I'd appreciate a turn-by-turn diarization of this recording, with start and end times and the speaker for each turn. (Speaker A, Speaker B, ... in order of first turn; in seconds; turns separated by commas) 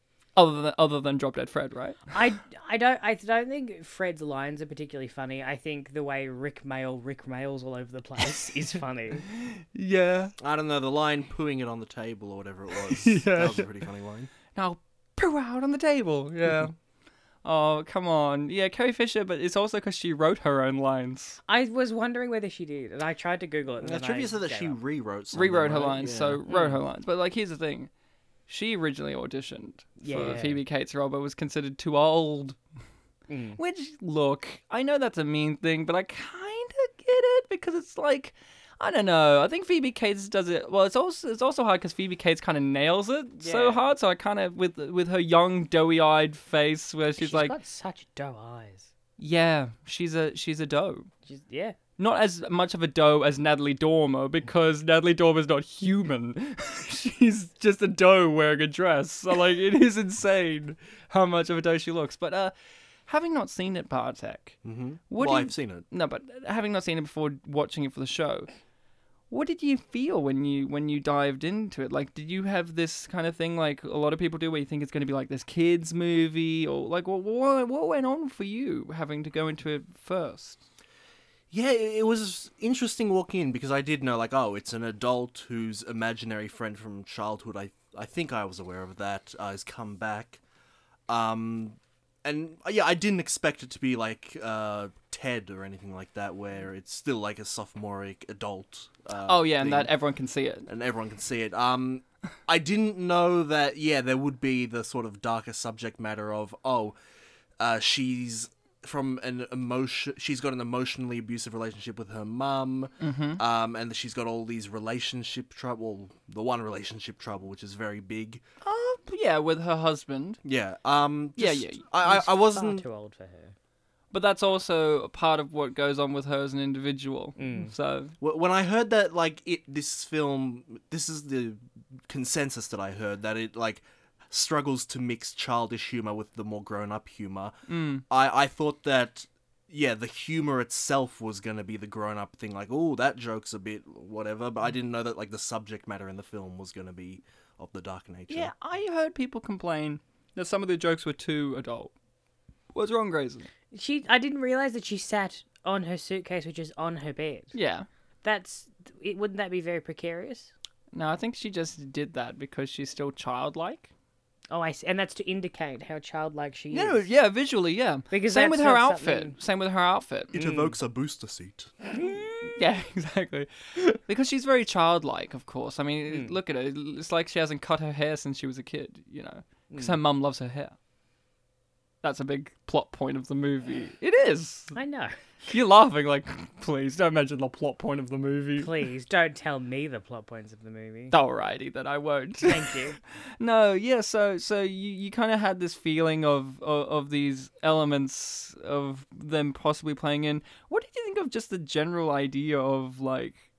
Speaker A: 0.4-2.0, Speaker B: 2.1-9.3, Speaker A: 9.4-10.3, Speaker C: 10.4-14.3, Speaker A: 12.9-13.7, Speaker A: 14.5-16.8, Speaker A: 17.4-21.4, Speaker B: 21.5-24.8, Speaker C: 23.8-26.4, Speaker A: 25.3-27.9, Speaker B: 26.5-26.8, Speaker A: 28.5-32.6, Speaker B: 30.0-30.6, Speaker B: 33.3-33.6, Speaker A: 33.6-47.5, Speaker B: 43.4-43.9, Speaker B: 47.2-48.9, Speaker A: 49.2-51.1, Speaker B: 51.3-51.8, Speaker A: 52.0-62.5, Speaker A: 63.1-64.6, Speaker C: 64.6-65.9, Speaker A: 65.1-68.5, Speaker A: 69.3-80.6, Speaker C: 81.5-90.4, Speaker C: 91.1-99.9, Speaker A: 99.2-100.7, Speaker C: 100.7-107.0, Speaker C: 107.6-118.4, Speaker A: 113.0-113.4, Speaker A: 118.6-120.4, Speaker C: 120.4-122.8, Speaker A: 121.4-121.9, Speaker B: 122.0-123.5, Speaker A: 124.1-128.1, Speaker B: 127.4-127.7, Speaker C: 128.2-137.6, Speaker A: 137.7-138.0, Speaker C: 138.1-148.5, Speaker A: 148.3-151.9, Speaker A: 152.7-153.5, Speaker B: 153.7-157.6, Speaker A: 157.5-157.9, Speaker B: 158.2-160.5, Speaker A: 160.9-163.9, Speaker B: 164.5-167.1, Speaker A: 166.7-170.5, Speaker B: 168.1-169.4, Speaker C: 170.3-171.8, Speaker B: 170.4-170.7, Speaker B: 172.0-172.4, Speaker A: 172.5-180.8, Speaker B: 176.1-176.4, Speaker B: 179.7-180.0, Speaker A: 182.0-184.8, Speaker B: 184.8-185.1, Speaker A: 185.5-188.8, Speaker B: 188.6-191.1, Speaker A: 191.1-192.8, Speaker B: 192.4-193.0, Speaker A: 193.4-203.4